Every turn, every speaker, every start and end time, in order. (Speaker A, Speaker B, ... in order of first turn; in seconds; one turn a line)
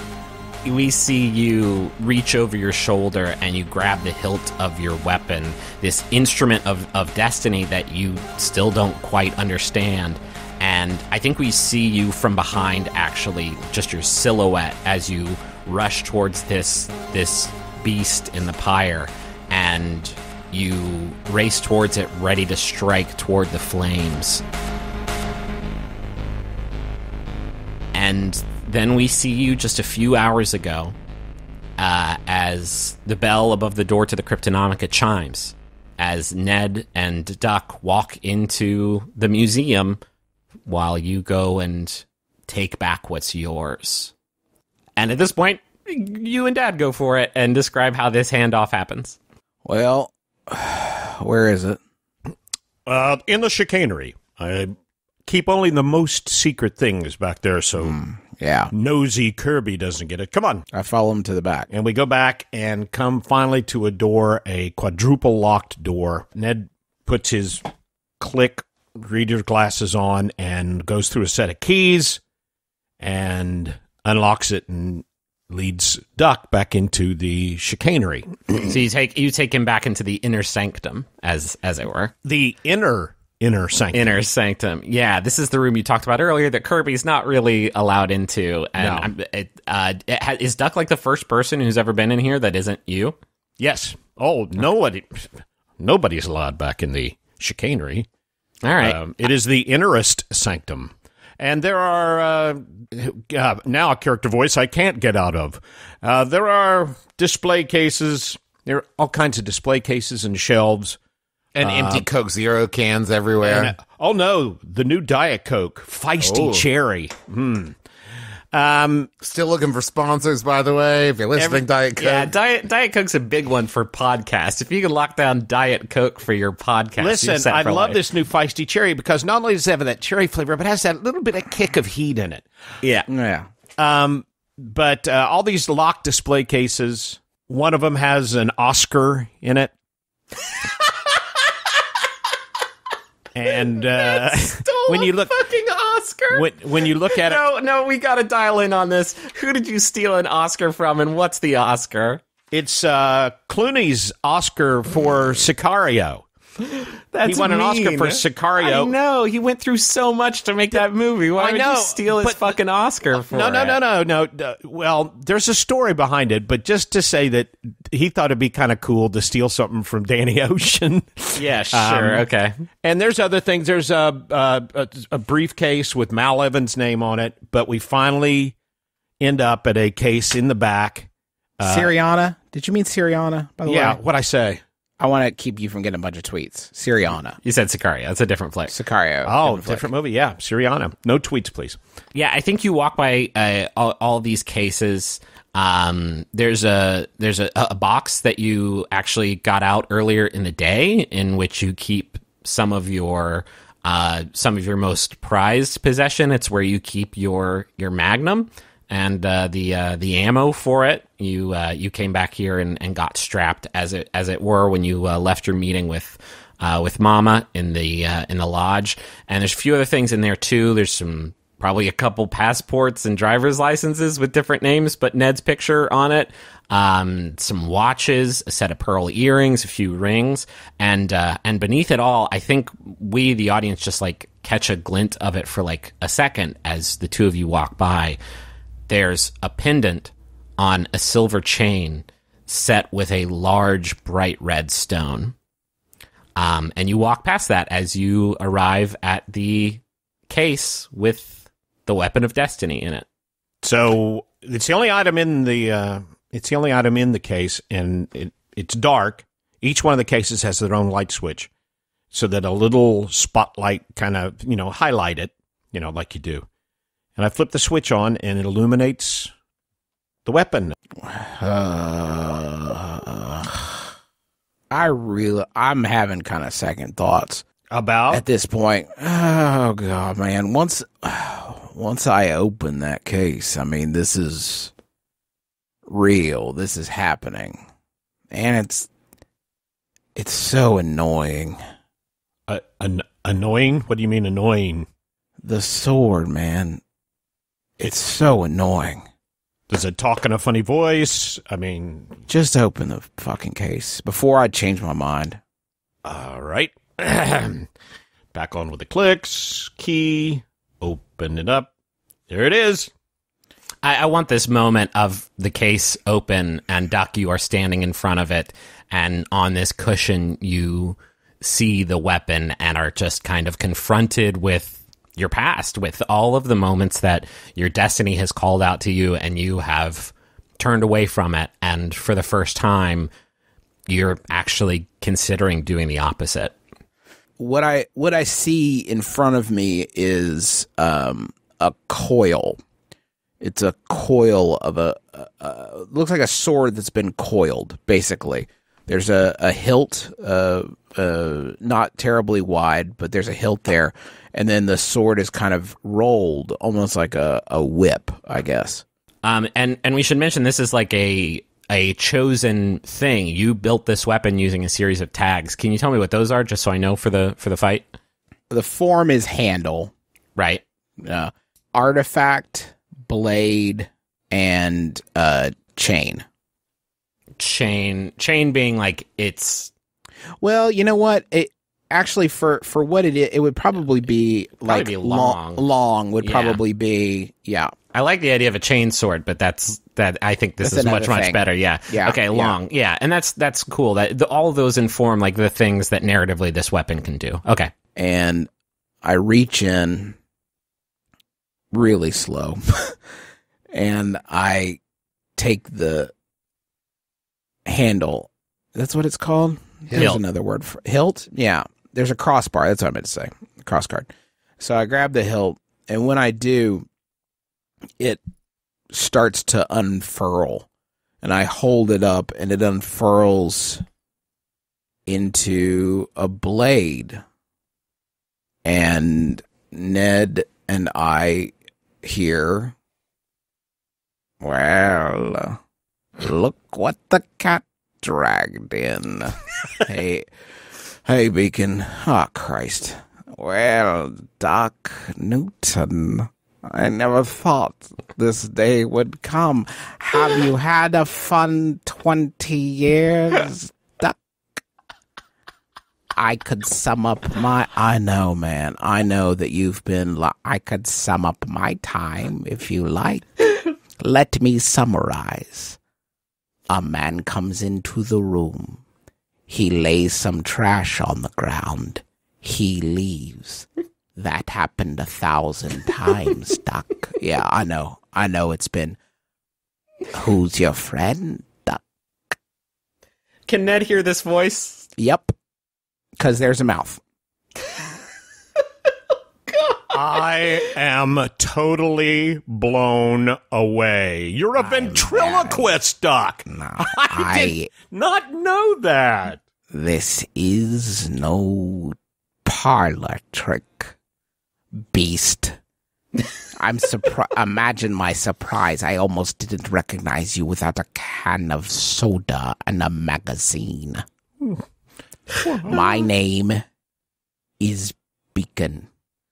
Speaker A: 0.7-24.4
Speaker A: 27.9-31.0
Speaker A: 31.8-40.0
Speaker A: 40.7-44.1
Speaker A: 45.0-49.2
Speaker B: 49.6-51.8
Speaker C: 52.9-54.8
Speaker C: 55.3-58.0
Speaker B: 57.8-58.7
Speaker C: 58.7-60.6
Speaker B: 60.7-61.7
Speaker C: 61.7-67.6
Speaker C: 68.2-72.2
Speaker C: 73.0-78.4
Speaker A: 78.6-82.1
Speaker C: 82.2-84.2
Speaker A: 83.9-93.2
Speaker C: 88.8-89.1
Speaker C: 93.6-98.1
Speaker A: 98.6-99.0
Speaker C: 98.8-111.0
Speaker D: 111.5-113.7
Speaker C: 111.6-112.1
Speaker C: 113.4-117.8
Speaker D: 116.2-116.7
Speaker C: 118.5-119.1
Speaker D: 119.2-122.3
Speaker C: 121.4-121.7
Speaker A: 122.0-128.0
Speaker C: 127.0-132.5
Speaker A: 132.8-133.1
Speaker B: 133.1-133.5
Speaker C: 133.8-139.7
Speaker C: 143.3-145.5
Speaker A: 143.8-146.5
Speaker C: 146.3-147.4
Speaker A: 147.1-152.2
Speaker C: 152.5-156.3
Speaker A: 157.1-163.8
Speaker C: 157.2-158.9
Speaker C: 161.4-162.6
Speaker C: 163.3-172.3
Speaker A: 171.4-172.6
Speaker C: 172.8-178.6
Speaker C: 179.2-181.1
Speaker C: 181.6-181.9
Speaker B: 181.6-184.0
Speaker C: 183.7-184.6
Speaker B: 185.0-187.4
Speaker A: 187.4-188.8
Speaker B: 188.7-189.9
Speaker C: 189.2-191.8
Speaker A: 192.2-238.2
Speaker A: 238.9-245.3
Speaker A: 246.4-253.1
Speaker C: 253.6-261.5
Speaker C: 262.1-266.5
Speaker C: 267.2-269.3
Speaker C: 270.3-270.8
Speaker B: 271.0-273.9
Speaker B: 274.7-277.4
Speaker C: 277.7-278.2
Speaker B: 278.1-284.7
Speaker B: 285.9-287.6
Speaker B: 288.3-288.9
Speaker B: 290.1-291.6
Speaker C: 292.5-294.9
Speaker B: 295.4-296.8
Speaker B: 297.8-299.1
Speaker C: 299.7-302.2
Speaker B: 302.3-305.4
Speaker C: 306.1-307.7
Speaker C: 308.3-311.7
Speaker C: 312.3-312.9
Speaker A: 313.8-333.1
Speaker A: 333.9-336.5
Speaker B: 337.4-342.6
Speaker B: 343.4-358.8
Speaker A: 359.2-367.9
Speaker B: 368.5-369.9
Speaker A: 370.4-370.6
Speaker B: 371.0-376.2
Speaker A: 377.4-379.7
Speaker B: 380.4-387.7
Speaker A: 384.7-385.6
Speaker A: 386.2-386.6
Speaker A: 387.9-397.7
Speaker B: 390.6-392.6
Speaker B: 397.9-398.5
Speaker B: 399.0-400.2
Speaker B: 401.7-403.0
Speaker B: 403.7-404.8
Speaker B: 405.4-406.1
Speaker B: 407.7-416.9
Speaker A: 409.9-410.2
Speaker B: 418.9-420.7
Speaker B: 421.2-423.8
Speaker B: 425.1-427.2
Speaker B: 428.6-432.8
Speaker B: 434.4-435.6
Speaker B: 436.2-440.3
Speaker B: 441.1-454.2
Speaker B: 456.1-465.8
Speaker B: 466.7-468.8
Speaker B: 469.5-479.0
Speaker B: 480.1-481.8
Speaker A: 483.5-484.9
Speaker B: 485.0-485.3
Speaker B: 486.2-487.0
Speaker C: 489.9-499.4
Speaker B: 494.6-495.7
Speaker B: 496.5-497.7
Speaker B: 499.7-503.9
Speaker B: 504.9-505.6
Speaker B: 506.6-514.0
Speaker C: 515.5-515.9
Speaker B: 515.6-516.6
Speaker B: 517.6-518.9